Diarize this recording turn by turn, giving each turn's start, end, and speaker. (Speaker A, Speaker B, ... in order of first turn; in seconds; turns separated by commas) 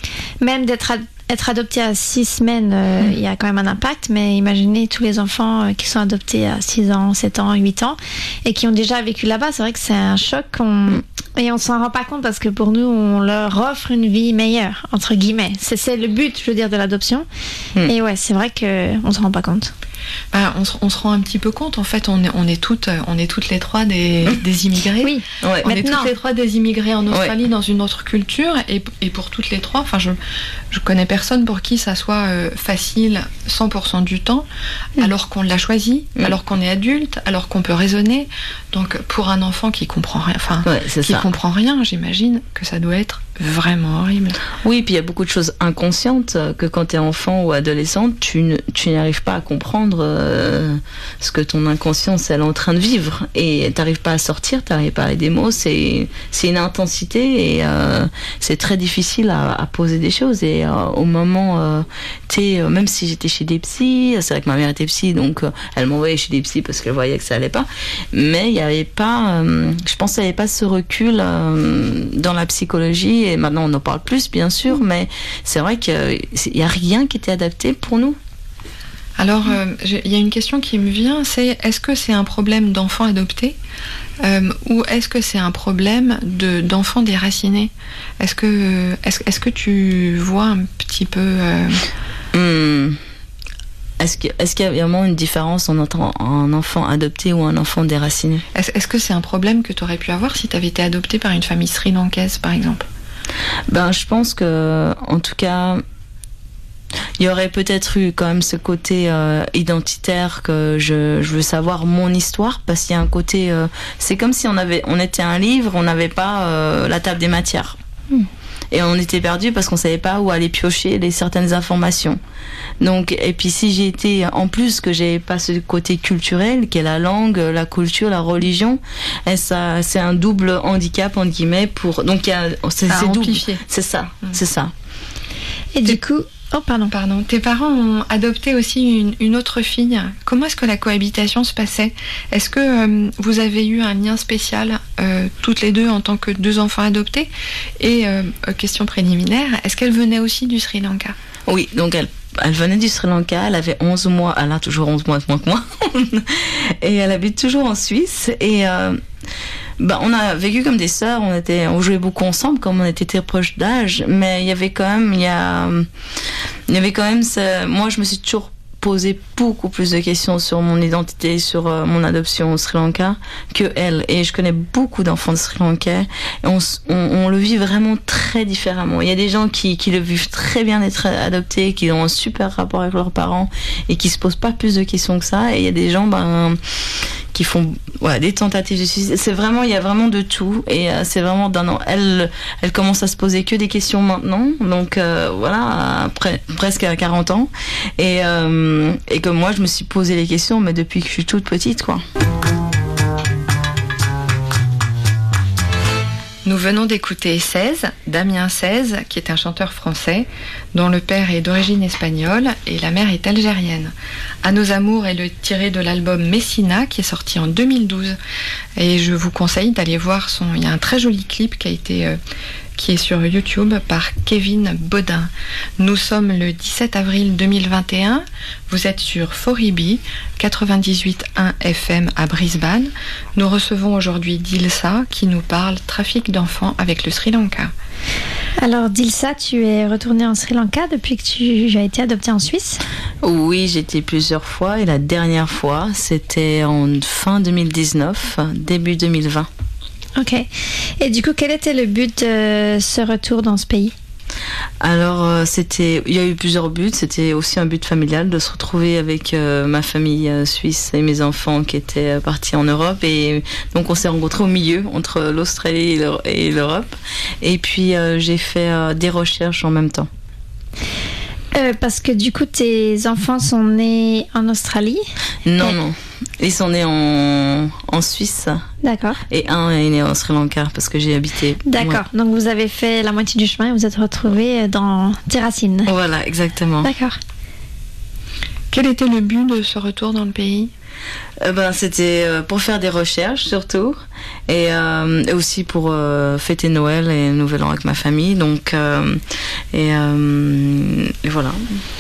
Speaker A: 0.4-17.3, Speaker A: 17.8-19.7, Speaker B: 20.3-30.2, Speaker A: 25.0-26.1, Speaker C: 25.4-25.7, Speaker C: 27.1-27.3, Speaker B: 30.7-34.5, Speaker B: 35.0-44.4, Speaker C: 40.6-41.3, Speaker C: 44.6-78.2, Speaker B: 79.2-83.6, Speaker B: 84.2-91.8, Speaker C: 92.3-93.0, Speaker C: 94.0-98.4, Speaker B: 98.5-102.9, Speaker C: 103.7-105.8, Speaker C: 107.2-117.8, Speaker C: 118.7-122.2, Speaker C: 122.8-134.7, Speaker B: 132.9-133.6, Speaker A: 135.7-136.9, Speaker B: 136.9-151.2, Speaker C: 151.5-159.0, Speaker C: 159.8-165.9, Speaker C: 166.7-186.6, Speaker C: 187.3-202.0, Speaker B: 206.4-218.2, Speaker B: 218.8-222.2, Speaker B: 222.8-237.7, Speaker A: 238.6-242.8, Speaker C: 243.2-249.5, Speaker A: 250.2-250.5, Speaker A: 251.0-253.9, Speaker C: 254.8-270.1, Speaker A: 271.5-275.0, Speaker C: 275.4-278.6, Speaker A: 278.8-279.2, Speaker C: 279.3-282.0, Speaker A: 281.7-285.9, Speaker C: 285.9-286.9, Speaker A: 286.8-287.1, Speaker B: 288.7-290.7, Speaker C: 291.4-299.2, Speaker C: 299.7-301.6